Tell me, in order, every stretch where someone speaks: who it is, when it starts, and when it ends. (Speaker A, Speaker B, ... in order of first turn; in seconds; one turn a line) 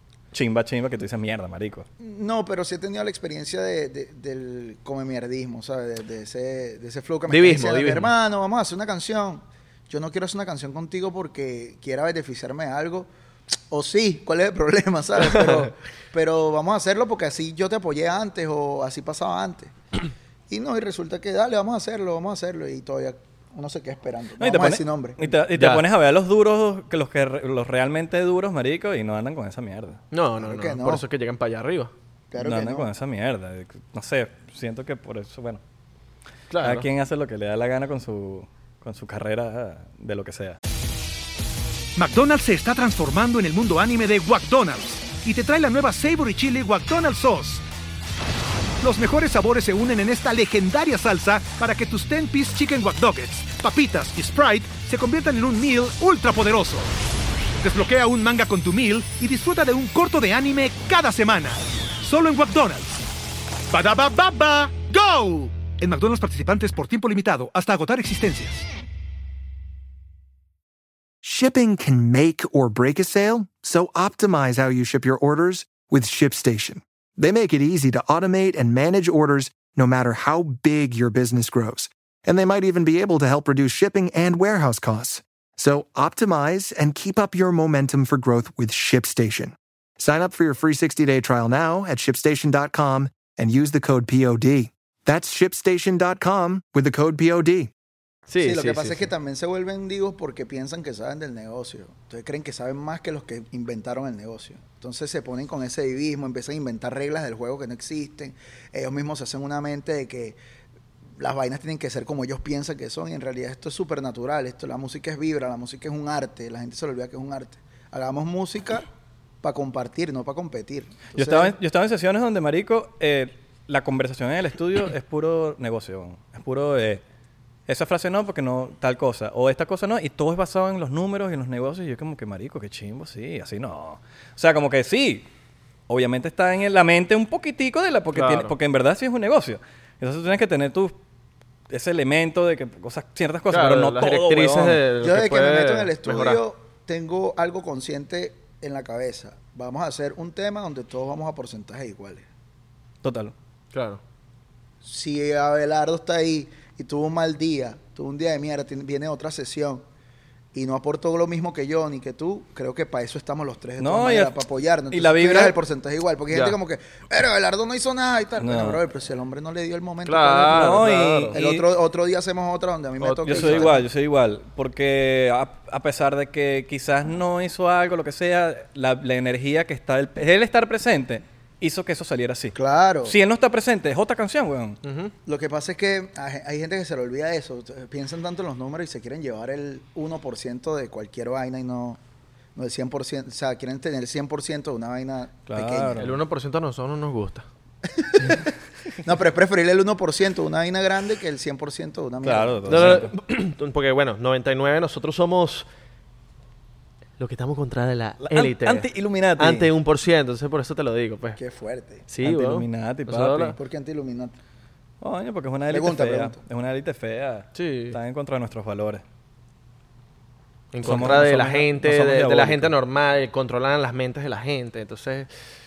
Speaker A: 0.3-1.9
Speaker B: 2.0-13.1
Speaker C: 7.3-8.1
Speaker B: 13.7-19.7
Speaker C: 15.2-15.7
Speaker B: 20.5-25.2
Speaker A: 24.4-30.0
Speaker C: 25.5-25.8
Speaker C: 30.1-31.9
Speaker B: 30.4-31.0
Speaker B: 32.3-32.9
Speaker A: 32.4-35.6
Speaker C: 36.5-36.9
Speaker A: 36.6-40.6
Speaker D: 42.0-47.6
Speaker D: 48.8-56.9
Speaker D: 57.6-63.0
Speaker D: 63.7-68.6
Speaker E: 71.2-97.7
Speaker C: 98.3-99.1
Speaker B: 98.4-110.4
Speaker B: 111.2-118.8
Speaker B: 119.4-121.5
Speaker A: 121.1-127.0
Speaker A: 127.7-135.3
Speaker A: 135.9-140.9
Speaker C: 138.1-138.5
Speaker A: 141.7-144.8
Speaker C: 143.5-146.4
Speaker B: 145.0-152.2
Speaker A: 153.0-153.3
Speaker C: 153.7-154.0
Speaker B: 154.8-159.8
Speaker B: 160.5-173.8
Speaker A: 163.8-164.3
Speaker A: 164.9-165.6
Speaker C: 166.3-166.6
Speaker A: 168.4-168.8
Speaker C: 170.0-171.4
Speaker A: 170.5-171.7
Speaker C: 173.0-173.7
Speaker A: 173.3-184.8
Speaker B: 182.5-183.1
Speaker C: 184.8-185.1
Speaker B: 185.2-192.0
Speaker B: 192.6-196.0
Speaker A: 195.5-196.2
Speaker C: 196.0-197.4
Speaker B: 197.9-198.5
Speaker B: 199.0-203.0
Speaker A: 202.2-203.1
Speaker C: 202.7-205.7
Speaker C: 207.2-211.4
Speaker A: 208.2-209.7
Speaker B: 211.4-212.1
Speaker C: 212.1-213.5
Speaker A: 212.2-213.5
Speaker B: 213.5-214.3
Speaker A: 215.0-219.0
Speaker B: 215.7-216.4
Speaker C: 217.5-218.0
Speaker C: 220.7-225.3
Speaker A: 220.8-222.7